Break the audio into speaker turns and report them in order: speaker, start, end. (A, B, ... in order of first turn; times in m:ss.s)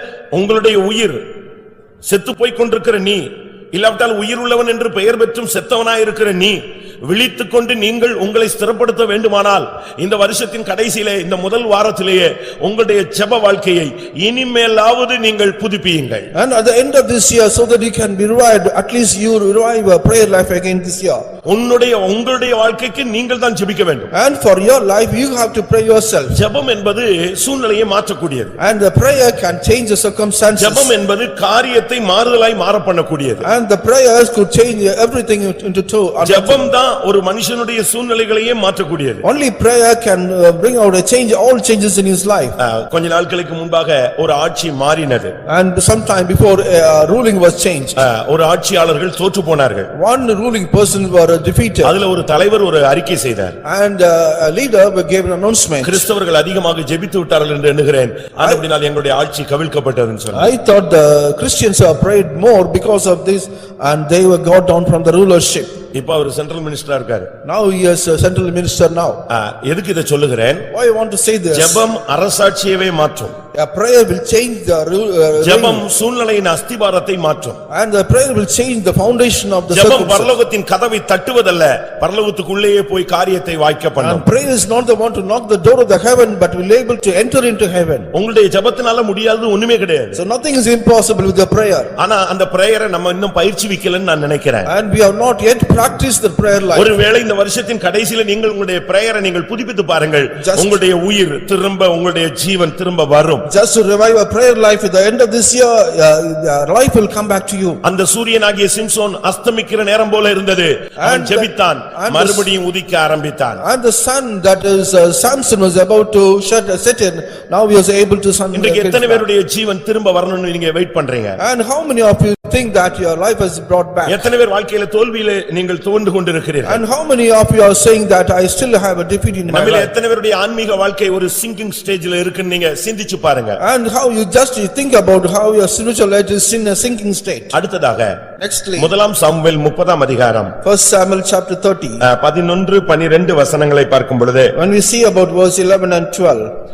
0:00.3-0:01.2 A
0:02.1-0:03.2 A
0:03.7-0:16.3 A
0:16.4-0:21.2 B
0:21.5-0:24.1 A
0:24.1-0:26.4 B
0:26.3-0:28.6 A
0:28.6-0:30.9 B
0:30.6-0:33.4 A
0:33.4-0:36.7 B
0:36.2-0:39.2 A
0:39.2-0:42.6 B
0:42.6-0:45.3 A
0:45.5-0:48.0 B
0:48.0-0:49.9 A
0:49.9-0:52.0 B
0:51.8-0:53.6 A
0:53.6-0:56.0 B
0:55.8-1:00.5 A
1:00.3-1:05.7 B
1:05.9-1:07.3 A
1:07.4-1:09.2 B
1:09.3-1:10.7 A
1:10.7-1:11.8 B
1:11.5-1:13.4 A
1:13.5-1:15.8 B
1:15.4-1:17.6 A
1:17.7-1:20.3 B
1:19.7-1:24.2 A
1:24.0-1:28.1 B
1:28.1-1:30.2 A
1:30.2-1:31.9 B
1:32.0-1:34.7 A
1:34.7-1:36.9 B
1:36.8-1:43.5 A
1:40.4-1:40.8 B
1:43.5-1:47.8 B
1:47.8-1:53.6 A
1:51.0-1:52.5 B
1:53.6-1:59.2 B
1:58.5-2:01.4 A
2:01.4-2:04.2 B
2:04.1-2:06.8 A
2:06.6-2:09.9 B
2:09.5-2:13.6 A
2:13.6-2:17.5 B
2:17.5-2:18.2 A
2:18.4-2:18.9 B
2:18.8-2:20.5 A
2:20.6-2:22.0 B
2:22.0-2:24.5 A
2:24.6-2:26.5 B